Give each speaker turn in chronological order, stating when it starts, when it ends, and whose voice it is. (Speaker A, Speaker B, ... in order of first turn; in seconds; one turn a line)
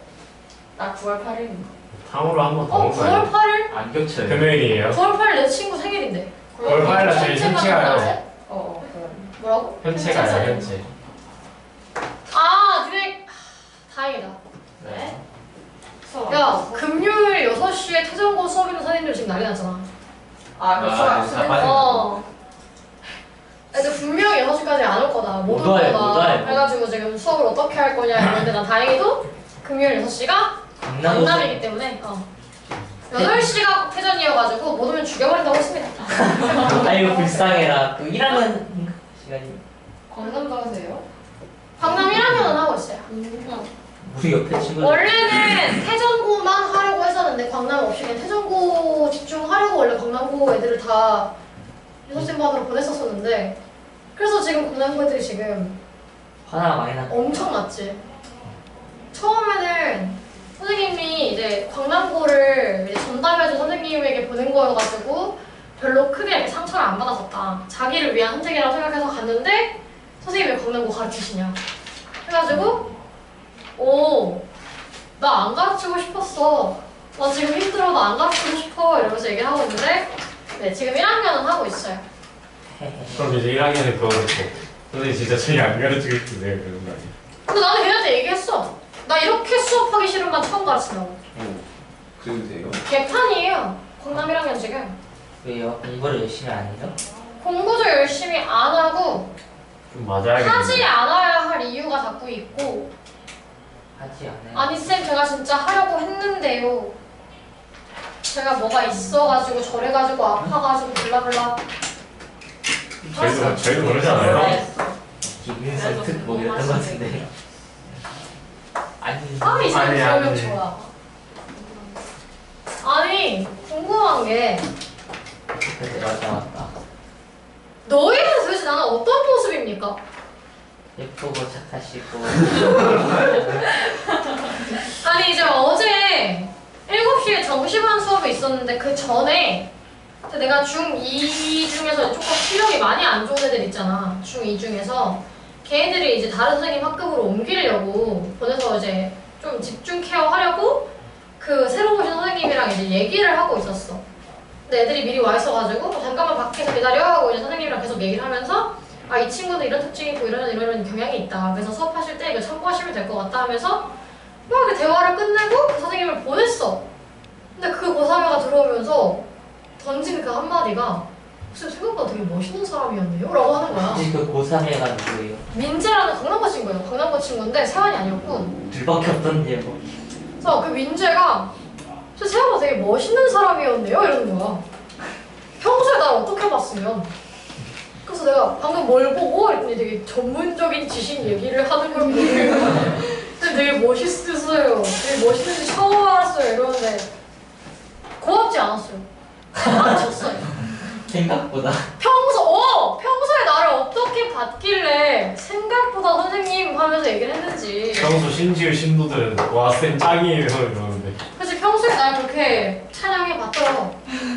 Speaker A: 0.8-1.7
Speaker B: 1.9-3.3
Speaker C: 2.7-3.7
Speaker D: 3.7-4.6
Speaker B: 4.2-5.0
Speaker C: 4.9-8.2
Speaker A: 6.5-7.6
Speaker B: 6.6-8.2
Speaker A: 8.5-9.3
Speaker C: 9.4-10.7
Speaker B: 9.8-10.9
Speaker A: 10.1-10.4
Speaker C: 12.3-14.4
Speaker A: 14.8-15.2
Speaker D: 14.8-15.1
Speaker A: 16.1-16.9
Speaker C: 16.3-19.9
Speaker A: 20.6-22.0
Speaker E: 20.7-22.2
Speaker C: 21.6-22.2
Speaker C: 23.7-32.3
Speaker D: 25.4-26.7
Speaker D: 30.8-31.7
Speaker C: 33.1-37.6
Speaker D: 33.1-33.5
Speaker D: 36.2-39.6
Speaker A: 40.1-41.0
Speaker C: 40.2-40.5
Speaker C: 41.8-43.7
Speaker D: 41.8-42.6
Speaker A: 43.1-43.7
Speaker D: 44.0-45.8
Speaker C: 44.8-51.3
Speaker C: 52.1-53.6
Speaker C: 54.2-55.8
Speaker D: 56.5-57.6
Speaker C: 57.1-58.0
Speaker C: 59.1-71.6
Speaker C: 72.2-72.8
Speaker C: 73.8-74.4
Speaker C: 75.2-82.0
Speaker D: 82.7-83.4
Speaker B: 83.1-87.1
Speaker C: 87.5-91.2
Speaker E: 91.4-91.6
Speaker E: 92.2-92.8
Speaker C: 92.8-95.0
Speaker D: 95.4-97.0
Speaker C: 97.4-99.3
Speaker B: 99.9-100.9
Speaker C: 100.4-102.9
Speaker D: 104.0-104.8
Speaker C: 104.5-107.0
Speaker C: 108.2-111.6
Speaker D: 113.0-114.7
Speaker B: 113.0-114.6
Speaker C: 113.2-113.6
Speaker A: 114.2-115.0
Speaker D: 115.2-117.3
Speaker A: 115.7-117.3
Speaker D: 119.0-119.8
Speaker C: 119.4-120.9
Speaker B: 119.7-120.6
Speaker A: 121.5-122.0
Speaker C: 122.8-124.7
Speaker D: 125.8-126.7
Speaker C: 127.8-130.0
Speaker D: 131.0-133.6
Speaker C: 135.0-139.7
Speaker C: 140.3-154.0
Speaker C: 154.7-163.9
Speaker C: 164.5-166.8
Speaker C: 167.6-169.3
Speaker C: 169.8-174.1
Speaker D: 173.8-175.4
Speaker C: 175.5-178.5
Speaker D: 178.7-179.8
Speaker C: 180.4-181.5
Speaker C: 182.2-184.6
Speaker C: 185.6-187.1
Speaker C: 188.1-197.1
Speaker C: 198.2-199.1
Speaker D: 199.5-200.2
Speaker C: 199.6-200.5
Speaker D: 200.9-201.9
Speaker C: 202.0-208.2
Speaker B: 208.0-211.2
Speaker C: 211.4-214.0